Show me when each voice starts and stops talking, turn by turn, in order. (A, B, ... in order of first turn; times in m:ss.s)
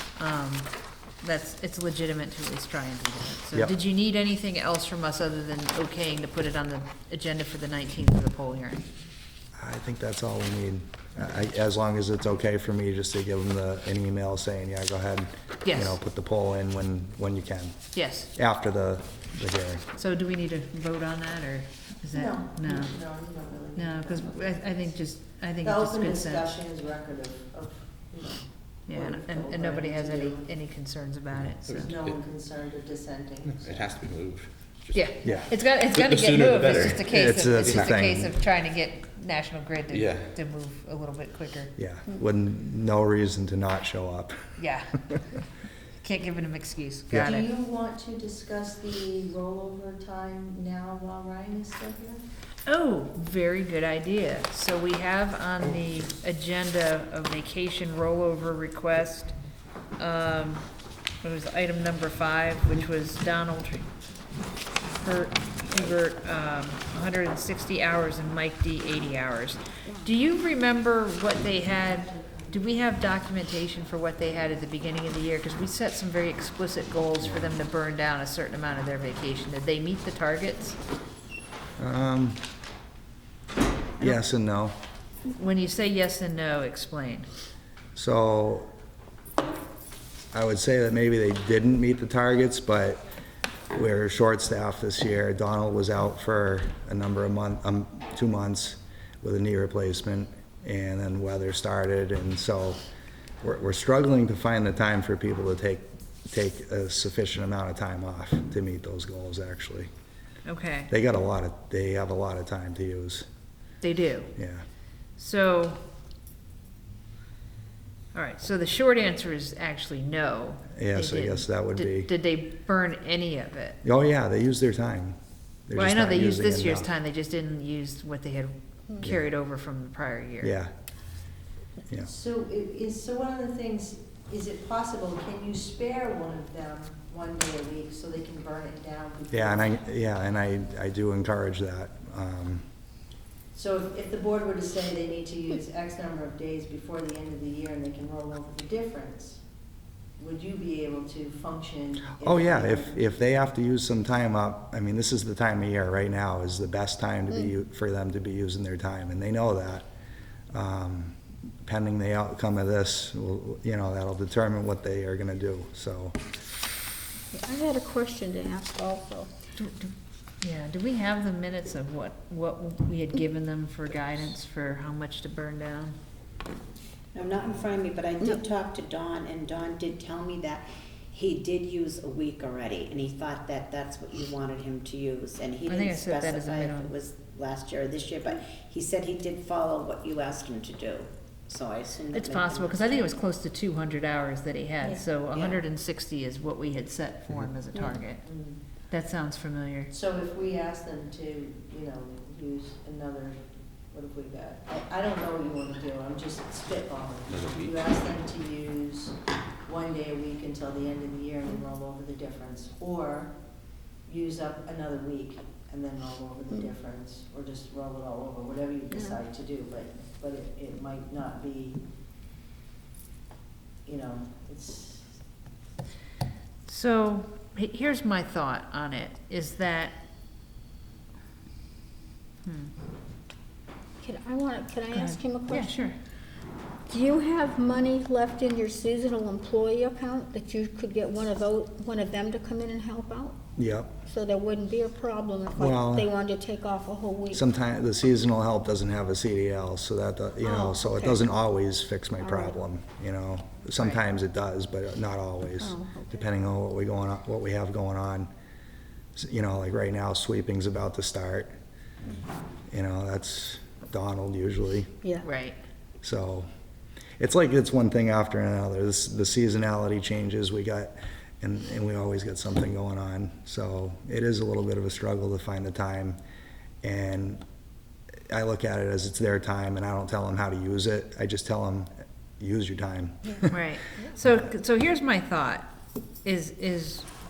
0:00.2-0:00.7 A
0:01.2-0:08.9 A
0:09.6-0:19.9 B
0:15.6-0:16.0 A
0:18.0-0:18.3 A
0:20.0-0:23.1 A
0:22.1-0:24.8 C
0:23.8-0:26.5 A
0:25.6-0:30.5 C
0:28.9-0:31.9 A
0:31.6-0:32.2 D
0:31.9-0:33.7 C
0:33.4-0:35.0 D
0:34.9-0:41.7 A
0:35.6-0:37.8 D
0:37.1-0:38.3 B
0:39.9-0:40.4 D
0:41.8-0:44.5 B
0:44.6-0:45.2 A
0:46.0-0:47.4 A
0:47.1-0:47.4 B
0:47.2-0:52.2 C
0:52.7-0:59.3 A
1:00.0-1:00.6 A
1:01.2-1:03.9 A
1:05.0-1:20.8 A
1:09.8-1:10.1 E
1:17.2-1:17.5 B
1:21.8-1:22.4 B
1:24.0-1:24.8 B
1:25.4-1:27.3 A
1:28.0-1:28.7 B
1:30.3-1:33.0 B
1:33.7-1:42.8 B
1:43.4-1:49.9 B
1:50.5-1:50.9 A
1:50.9-1:53.3 B
1:53.8-1:54.4 A
1:54.4-1:54.6 B
1:55.2-1:55.8 A
1:58.1-2:03.8 A
2:00.7-2:02.1 B
2:03.8-2:05.2 B
2:05.7-2:06.9 B
2:05.8-2:10.5 A
2:10.4-2:10.7 B
2:12.0-2:19.7 C
2:19.3-2:22.7 B
2:23.5-2:29.4 C
2:30.2-2:33.0 C
2:32.2-2:39.9 B
2:40.5-2:46.2 B
2:47.3-2:49.3 E
2:49.6-2:56.0 A
2:57.2-3:13.1 F
3:05.7-3:06.9 A
3:12.1-3:18.3 A
3:15.3-3:15.6 F
3:18.3-3:18.6 C
3:18.9-3:19.9 A
3:19.9-3:33.3 C
3:27.3-3:28.0 D
3:34.1-3:41.8 C
3:43.9-3:45.2 C
3:46.7-3:50.0 A
3:52.4-3:52.7 A
3:54.0-3:55.9 E
3:54.9-3:56.0 A
3:56.9-4:03.4 E
4:03.6-4:04.0 B
4:04.1-4:07.4 E
4:05.6-4:06.0 B
4:07.3-4:18.3 B
4:10.4-4:11.2 E
4:12.2-4:12.5 E
4:15.6-4:16.2 E
4:19.2-4:21.6 B
4:22.7-4:25.0 B
4:25.2-4:25.6 A
4:26.0-4:26.5 B
4:27.2-4:36.2 B
4:36.8-4:37.4 B
4:38.3-4:43.6 B
4:43.5-4:45.7 A
4:46.2-4:47.1 A